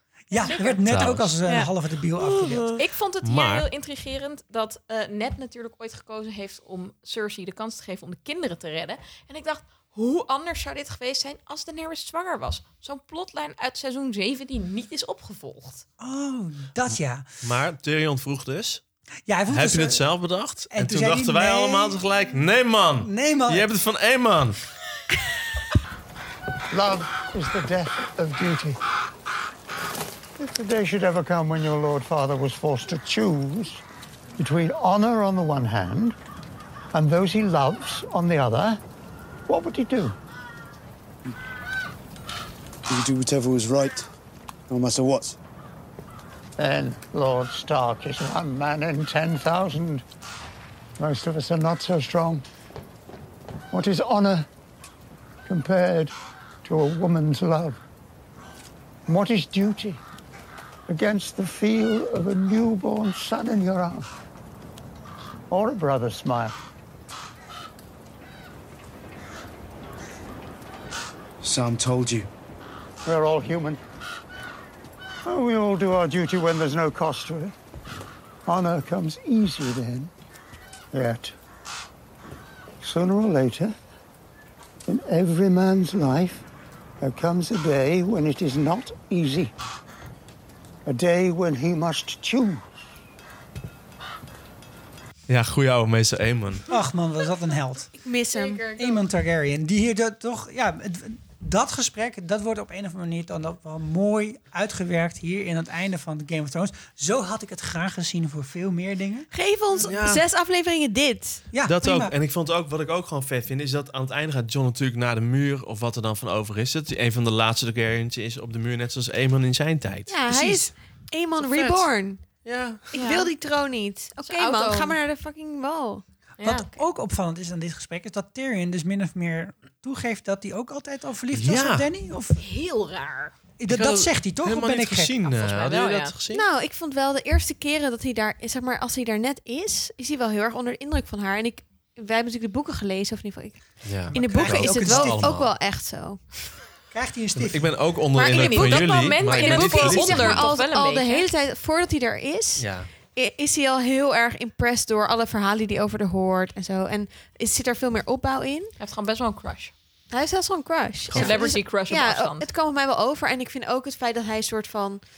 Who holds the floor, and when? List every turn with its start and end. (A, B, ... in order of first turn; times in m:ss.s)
0:00.3-0:02.6 A
0:00.4-0:00.8 B
0:00.9-0:01.3 C
0:02.2-0:03.7 C
0:02.8-0:15.8 B
0:16.0-0:17.2 A
0:17.4-0:18.8 C
0:19.3-0:20.0 A
0:19.5-0:24.6 C
0:20.7-0:22.0 A
0:23.0-0:23.7 A
0:26.7-0:28.8 D
0:30.4-0:33.8 D
0:34.4-0:36.2 D
0:36.9-0:38.8 D
0:39.5-0:40.2 D
0:42.9-0:44.1 E
0:44.7-0:45.4 E
0:46.6-0:50.0 D
0:51.0-0:52.4 D
0:53.7-0:54.5 D
0:55.4-0:56.1 D
0:56.6-0:57.8 D
0:59.1-1:00.0 D
1:00.9-1:04.1 D
1:05.5-1:06.6 D
1:11.4-1:12.3 E
1:13.0-1:13.8 D
1:15.2-1:17.5 D
1:18.4-1:20.1 D
1:20.9-1:21.3 D
1:22.8-1:23.7 D
1:24.9-1:26.4 D
1:27.0-1:29.5 D
1:30.8-1:32.6 D
1:35.3-1:36.6 C
1:36.7-1:37.9 A
1:38.0-1:38.6 F
1:38.3-1:39.0 B
1:38.8-1:49.3 A
1:49.3-1:51.4 F
1:49.8-1:50.2 C
1:51.5-1:52.1 A
1:51.6-2:00.5 C
2:00.1-2:02.2 F
2:00.3-2:00.7 A
2:01.4-2:01.9 C
2:02.4-2:02.9 C
2:02.9-2:06.0 F
2:02.9-2:03.3 B
2:04.2-2:05.0 B
2:06.4-2:06.7 B
2:06.4-2:12.4 A
2:11.3-2:11.9 C
2:12.4-2:13.3 B
2:13.6-2:15.2 A
2:13.7-2:16.4 C
2:15.2-2:16.1 B
2:16.3-2:26.2 F
2:23.8-2:25.5 C
2:24.1-2:25.2 A
2:26.9-2:27.7 A
2:27.4-2:30.5 C
2:28.1-2:31.3 B
2:28.3-2:38.7 F
2:32.6-2:32.9 C
2:38.8-2:39.7 B
2:40.1-2:45.0 F
2:41.1-2:41.4 C
2:41.1-2:42.5 B